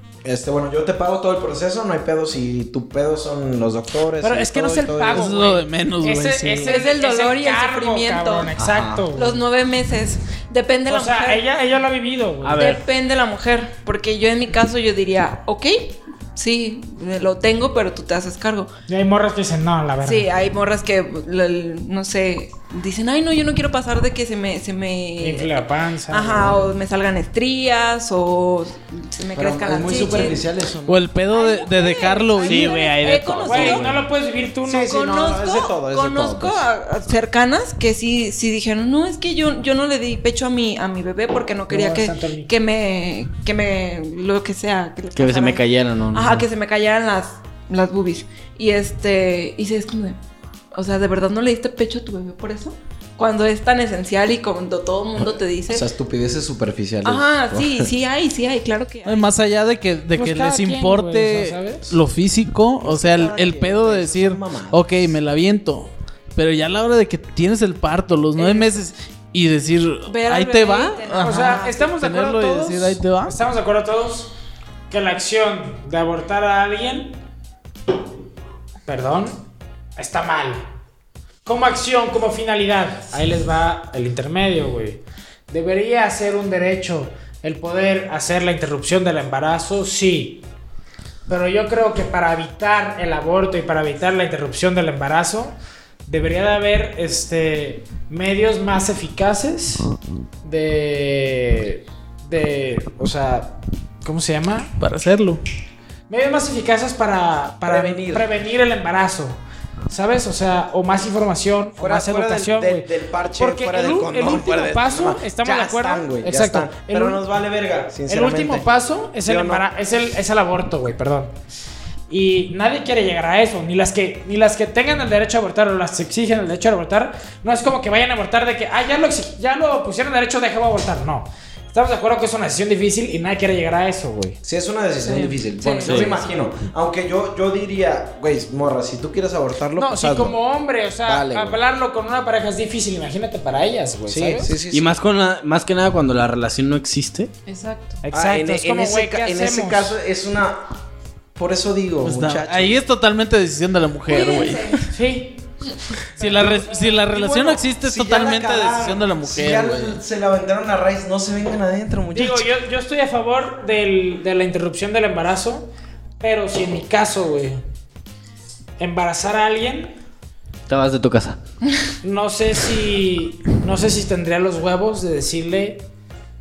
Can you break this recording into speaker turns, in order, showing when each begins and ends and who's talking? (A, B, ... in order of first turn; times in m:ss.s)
0:00.2-0:05.4 A
0:04.2-0:09.4 B
0:05.1-0:06.8 C
0:06.6-0:08.5 D
0:08.6-0:09.1 A
0:09.1-0:11.4 D
0:10.9-0:12.8 B
0:12.4-0:12.8 E
0:12.6-0:18.7 D
0:18.9-0:20.3 B
0:20.0-0:30.4 D
0:25.2-0:26.7 B
0:29.3-0:31.1 A
0:30.9-0:32.8 C
0:31.3-0:34.0 D
0:32.4-0:34.0 E
0:33.4-0:35.0 B
0:34.6-0:36.7 A
0:34.8-0:50.2 D
0:41.7-0:42.5 B
0:45.2-0:46.4 E
0:50.7-0:55.9 D
0:55.2-0:57.9 A
0:57.0-0:59.3 D
0:59.0-1:13.4 C
1:00.2-1:02.0 B
1:02.8-1:05.0 A
1:08.4-1:08.7 D
1:10.1-1:11.9 D
1:11.2-1:14.3 B
1:14.9-1:17.2 B
1:18.9-1:20.7 B
1:21.4-1:30.4 B
1:31.3-1:39.9 B
1:40.4-1:44.8 B
1:44.8-1:45.4 C
1:46.1-1:57.2 B
1:47.7-1:48.3 A
1:51.8-1:58.7 A
1:58.1-2:01.3 B
1:59.2-1:59.7 A
2:02.1-2:14.4 B
2:14.4-2:20.4 A
2:15.0-2:16.3 D
2:15.8-2:16.1 E
2:19.8-2:24.6 B
2:21.0-2:21.6 A
2:24.1-2:24.9 A
2:24.7-2:27.3 E
2:27.5-2:28.0 D
2:28.0-2:29.9 B
2:28.1-2:30.7 A
2:31.4-2:32.8 A
2:32.0-2:34.8 C
2:34.1-2:34.9 D
2:34.9-2:35.4 B
2:36.2-2:37.0 B
2:36.2-2:40.0 C
2:37.0-2:42.5 A
2:42.1-2:45.7 B
2:46.2-2:47.6 B
2:48.8-2:50.0 B
2:50.7-2:51.4 E
2:52.0-2:55.9 B